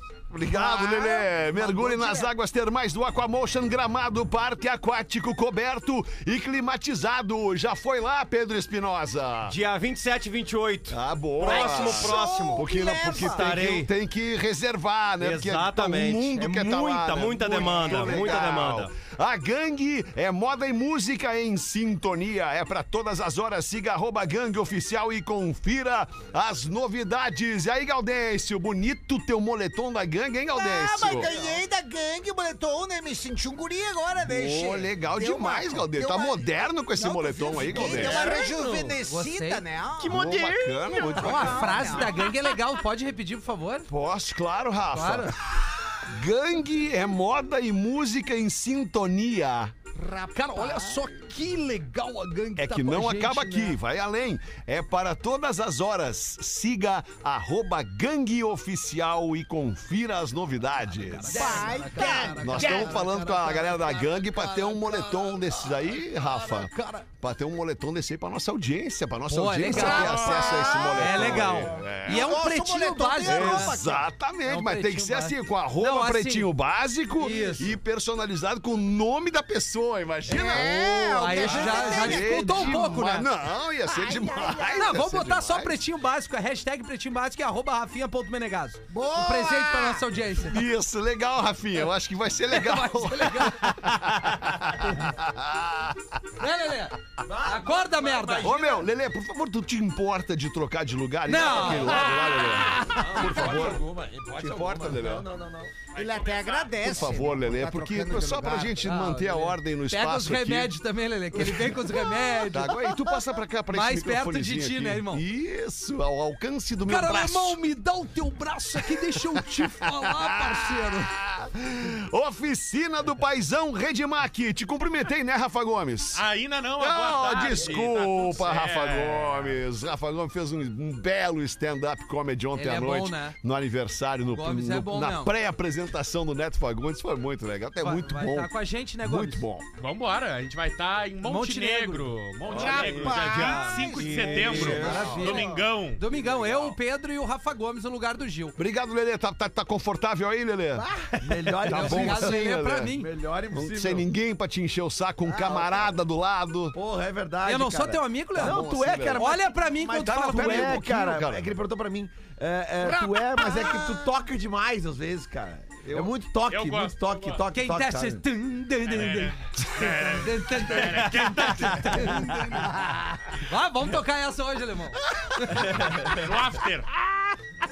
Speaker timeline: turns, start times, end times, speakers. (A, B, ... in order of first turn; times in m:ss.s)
0:00.3-0:09.6 A
0:00.4-0:02.3 B
0:09.5-0:13.9 C
0:10.9-0:31.3 A
0:11.4-0:13.5 B
0:15.2-0:18.9 C
0:17.3-0:18.6 B
0:30.5-0:40.2 B
0:34.2-0:38.4 A
0:37.9-0:38.6 C
0:38.0-0:38.4 D
0:39.0-0:39.6 D
0:40.0-0:42.1 A
0:40.0-0:41.2 C
0:41.0-0:42.3 B
0:41.1-0:43.9 D
0:43.9-0:45.4 A
0:44.9-0:45.3 D
0:46.1-0:49.7 A
0:49.9-0:51.1 B
0:50.3-0:53.8 D
0:52.6-1:12.4 A
1:00.9-1:07.0 D
1:01.3-1:03.0 B
1:09.3-1:13.8 D
1:09.7-1:14.1 B
1:09.9-1:10.6 E
1:13.2-1:25.8 A
1:14.4-1:16.5 D
1:17.2-1:17.8 D
1:20.3-1:23.0 B
1:21.2-1:23.3 D
1:23.9-1:25.0 B
1:24.7-1:30.6 D
1:28.9-1:30.0 B
1:30.5-1:36.0 A
1:32.5-1:34.5 D
1:36.4-1:38.6 D
1:37.2-1:38.8 F
1:38.4-1:45.3 A
1:41.2-1:43.3 D
1:41.4-1:45.7 F
1:45.9-1:47.0 E
1:45.9-1:48.9 B
1:46.8-1:50.7 A
1:48.8-1:52.8 D
1:51.4-1:57.6 A
1:53.7-1:55.2 D
1:56.9-2:01.1 D
1:58.8-2:06.2 A
2:06.1-2:09.6 E
2:06.8-2:19.6 A
2:12.5-2:13.4 D
2:14.2-2:15.3 D
2:17.8-2:19.4 D
2:19.8-2:26.5 E
2:21.2-2:22.1 D
2:22.5-2:23.1 A
2:22.5-2:24.8 B
2:22.6-2:24.9 C
2:24.5-2:25.4 A
2:24.6-2:28.6 D
2:28.6-2:30.8 A
2:30.8-2:34.1 F
2:31.5-2:32.9 A
2:31.7-2:33.1 D
2:33.5-2:36.8 A
2:35.2-2:36.0 F
2:36.7-2:48.2 F
2:37.4-2:40.8 D
2:38.4-2:39.4 A
2:40.0-2:41.5 A
2:42.8-2:43.8 D
2:45.8-2:46.1 A
2:46.5-2:47.4 E
2:47.5-2:52.6 D
2:48.8-2:52.2 E
2:53.3-2:55.9 D
2:55.9-2:56.9 E